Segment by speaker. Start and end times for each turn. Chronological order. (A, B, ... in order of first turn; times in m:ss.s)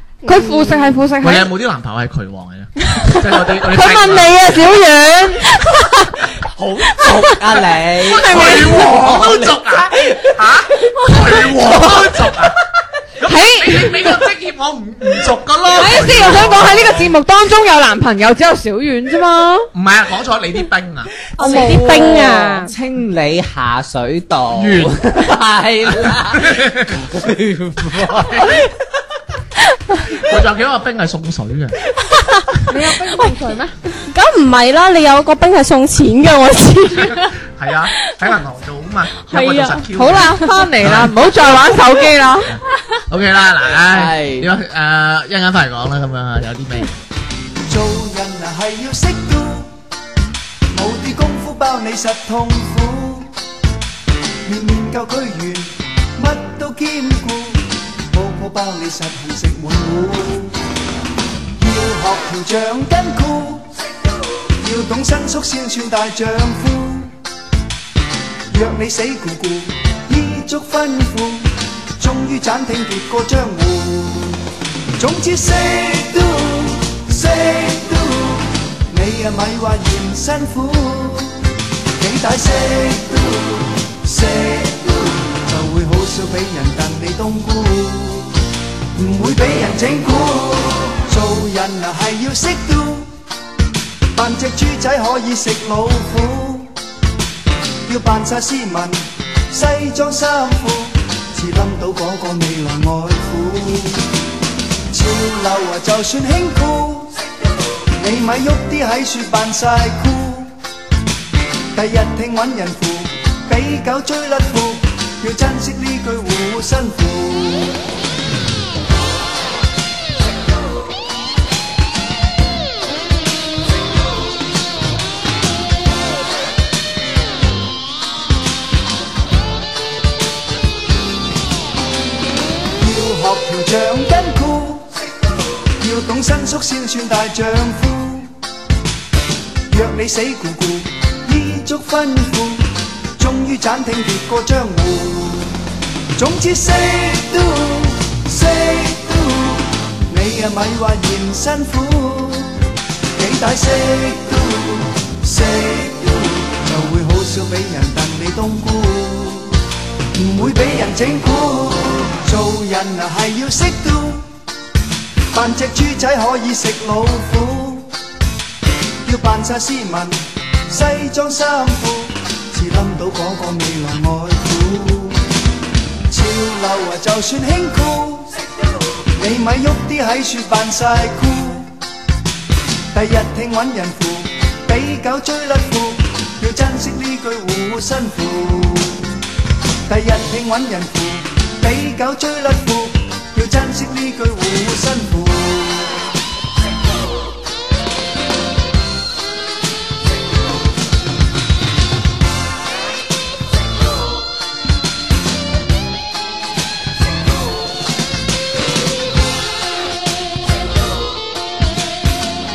0:00.2-0:01.0 A
0:00.2-0:01.5 B
0:01.2-0:04.7 C
0:02.9-0:06.1 A
0:03.9-0:05.4 B
0:06.5-0:12.3 D
0:08.0-0:12.6 C
0:08.1-0:09.0 B
0:13.2-0:17.1 C
0:13.2-0:13.9 B
0:15.7-0:19.7 B
0:19.7-0:21.1 C
0:21.4-0:28.7 D
0:21.4-0:22.7 A
0:21.4-0:22.1 B
0:24.5-0:25.3 C
0:26.0-0:27.0 C
0:28.0-0:28.6 C
0:30.1-0:31.8 C
0:32.7-0:33.8 B
0:34.0-0:37.3 A
0:37.0-0:41.2 C
0:39.3-0:40.5 A
0:39.9-0:42.5 B
0:42.4-0:47.0 C
0:43.9-0:44.5 D
0:47.7-0:49.8 E
0:50.7-0:53.3 E
0:54.4-1:00.6 E
1:01.6-1:03.7 E
1:04.6-1:07.2 E
1:08.5-1:14.4 E
1:15.0-1:28.4 E
1:28.9-1:33.1 E
1:34.1-1:36.8 E
1:37.8-1:44.1 E
1:44.9-1:47.1 E
1:47.9-1:50.6 E
1:51.7-1:57.8 E
2:12.8-2:14.9 E
2:15.8-2:18.4 E
2:19.7-2:25.6 E
2:26.2-2:32.5 E
2:33.1-2:39.6 E
2:40.1-2:44.3 E
2:45.3-2:47.9 E
2:49.0-2:55.2 E
2:56.1-2:58.4 E
2:59.1-3:01.8 E
3:02.9-3:09.0 E
3:09.9-3:16.0 E